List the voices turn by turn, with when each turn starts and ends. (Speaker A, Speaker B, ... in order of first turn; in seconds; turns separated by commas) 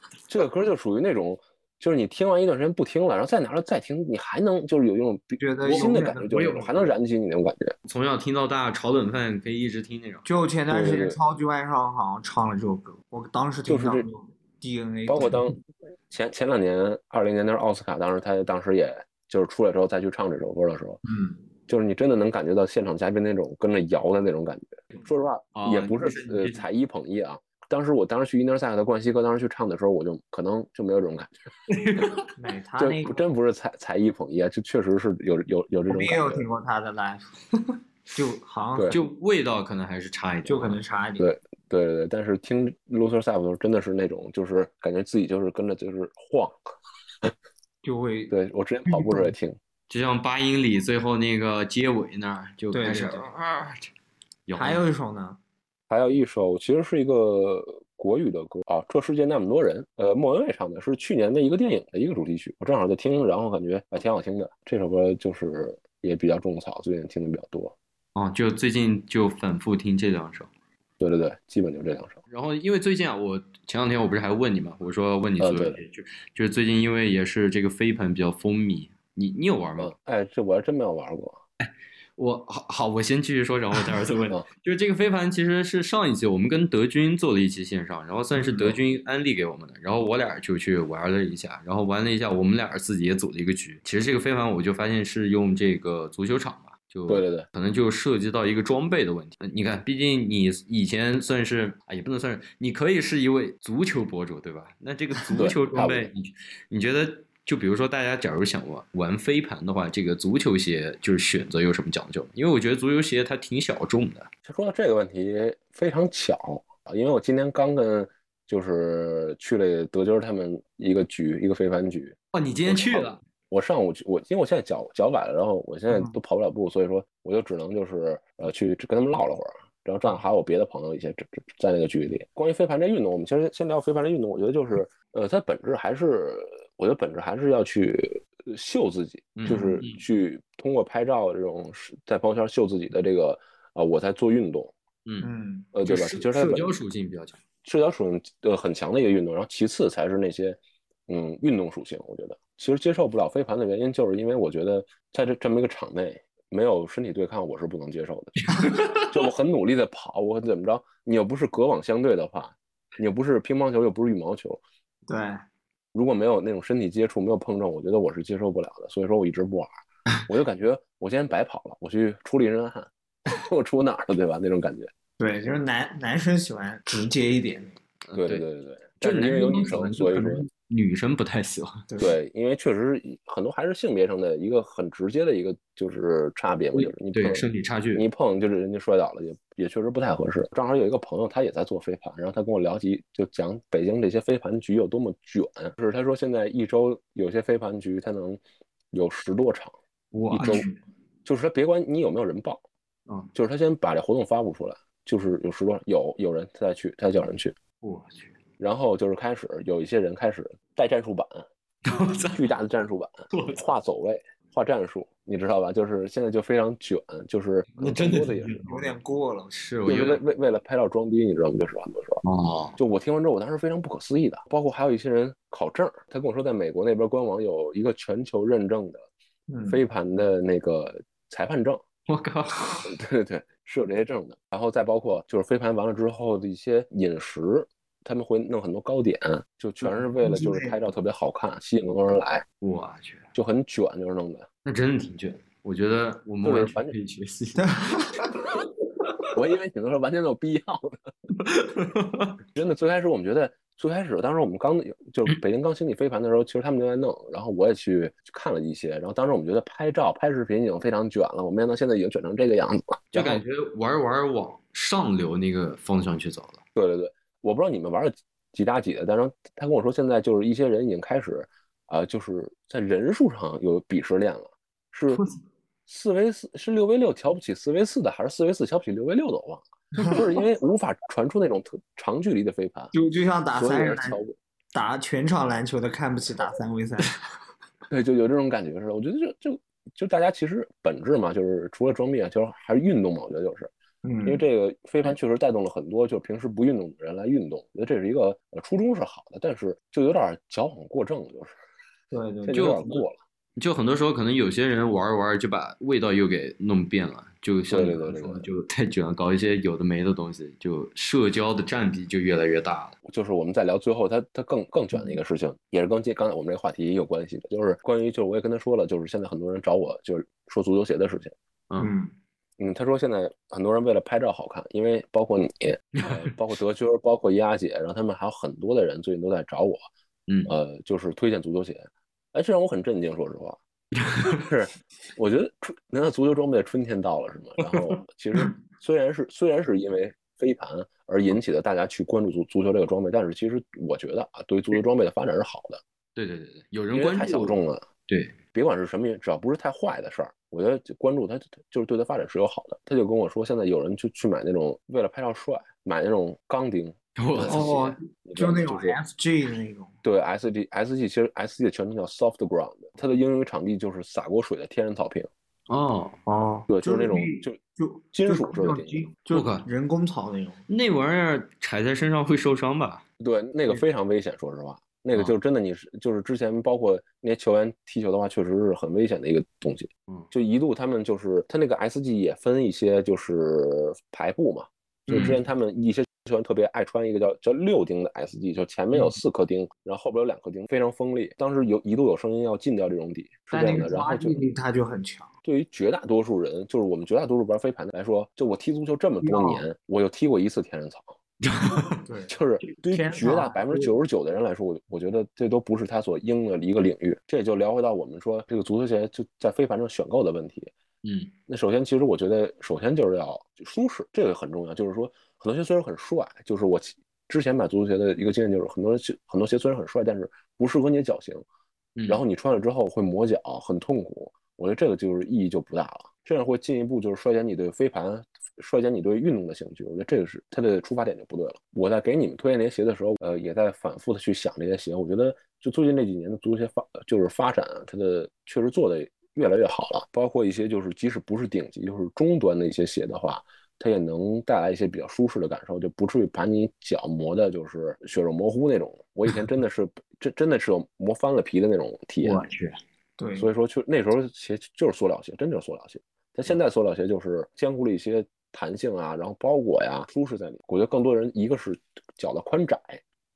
Speaker A: 0.3-7.7, Speaker B: 5.4-6.5, Speaker C: 5.7-6.9, Speaker C: 7.8-10.2, Speaker B: 10.2-15.5, Speaker A: 10.7-11.2, Speaker A: 13.7-14.1, Speaker A: 15.1-15.6, Speaker A: 16.1-21.0, Speaker B: 21.0-21.4, Speaker A: 21.7-31.3, Speaker C: 25.5-26.6, Speaker C: 31.7-32.3, Speaker B: 32.3-33.2, Speaker A: 32.8-36.4, Speaker B: 35.9-37.4, Speaker B: 38.1-39.0, Speaker A: 38.7-39.0, Speaker C: 38.9-40.8, Speaker B: 40.4-41.3, Speaker A: 41.2-47.3, Speaker B: 47.8-48.3, Speaker A: 48.3-49.6, Speaker B: 48.9-49.3, Speaker C: 49.9-53.9, Speaker B: 52.7-53.3, Speaker C: 54.5-54.8, Speaker B: 54.5-55.4, Speaker A: 55.9-67.7, Speaker C: 68.1-70.5, Speaker A: 71.0-72.2, Speaker C: 72.3-79.9, Speaker A: 75.4-75.8, Speaker A: 79.8-81.4, Speaker C: 81.6-114.3, Speaker A: 88.4-88.8, Speaker A: 97.1-97.5, Speaker A: 105.3-106.1, Speaker A: 114.4-144.7, Speaker C: 122.3-123.2, Speaker B: 125.9-126.1, Speaker C: 139.4-140.0, Speaker B: 145.2-145.7, Speaker A: 145.7-146.7, Speaker C: 145.8-147.4, Speaker A: 147.6-164.6, Speaker C: 158.5-159.2, Speaker B: 165.1-165.4, Speaker A: 165.9-169.7, Speaker A: 170.3-174.9, Speaker B: 175.2-177.8, Speaker C: 178.1-178.4, Speaker A: 178.1-180.5, Speaker C: 179.0-181.9, Speaker B: 181.9-182.1, Speaker A: 182.0-187.4, Speaker C: 186.7-188.0, Speaker A: 187.9-198.4, Speaker A: 198.9-199.8, Speaker B: 200.1-200.7, Speaker C: 200.3-200.6, Speaker A: 200.3-200.6, Speaker A: 201.2-202.6, Speaker A: 203.3-207.5, Speaker C: 207.8-208.3, Speaker A: 208.6-211.4, Speaker C: 211.8-212.5, Speaker A: 212.3-218.7, Speaker C: 213.3-213.6, Speaker C: 217.8-218.9, Speaker B: 218.6-219.6, Speaker C: 219.5-220.2, Speaker A: 219.8-222.2, Speaker C: 222.2-222.8, Speaker A: 222.8-229.1, Speaker B: 229.5-229.8, Speaker A: 229.7-231.8, Speaker C: 232.1-232.9, Speaker A: 232.8-242.4, Speaker B: 239.8-240.8, Speaker C: 242.6-243.3, Speaker A: 243.3-244.5, Speaker C: 244.6-247.7, Speaker A: 246.4-246.9, Speaker B: 247.6-248.4, Speaker A: 249.3-251.0, Speaker C: 251.4-252.4, Speaker A: 252.5-263.4, Speaker C: 263.1-266.6, Speaker A: 266.7-275.2, Speaker A: 275.9-282.9, Speaker B: 282.9-284.2, Speaker A: 283.5-284.3, Speaker B: 284.7-287.1, Speaker A: 287.9-293.7, Speaker B: 294.0-294.4, Speaker A: 294.2-301.5, Speaker B: 302.1-302.8, Speaker A: 302.4-303.2, Speaker C: 302.5-303.0, Speaker C: 303.6-313.0, Speaker A: 307.7-308.5, Speaker A: 313.0-321.3, Speaker B: 321.8-322.1, Speaker A: 322.6-329.9, Speaker C: 326.0-326.3, Speaker C: 330.3-330.5, Speaker A: 330.4-333.6, Speaker C: 334.0-334.5, Speaker A: 334.2-345.8, Speaker C: 337.6-338.5, Speaker C: 346.1-348.4, Speaker A: 346.9-347.9, Speaker A: 348.5-357.7, Speaker C: 357.2-358.0, Speaker B: 357.5-359.9, Speaker A: 358.2-359.0, Speaker A: 360.0-365.3, Speaker C: 365.7-366.2, Speaker B: 366.3-370.6, Speaker A: 366.7-367.6, Speaker A: 368.1-369.1, Speaker C: 369.3-369.7, Speaker C: 370.7-373.0, Speaker A: 373.2-394.4, Speaker C: 385.1-385.4, Speaker B: 393.5-395.3, Speaker A: 395.4-401.1, Speaker B: 399.2-399.6, Speaker C: 401.4-402.0, Speaker B: 402.0-402.4, Speaker A: 402.3-410.7, Speaker B: 402.9-403.9, Speaker C: 411.0-411.3, Speaker A: 411.5-421.4, Speaker C: 421.9-422.2, Speaker A: 422.1-452.4, Speaker B: 452.2-452.5, Speaker C: 452.3-452.7, Speaker B: 453.2-453.5, Speaker A: 453.4-463.0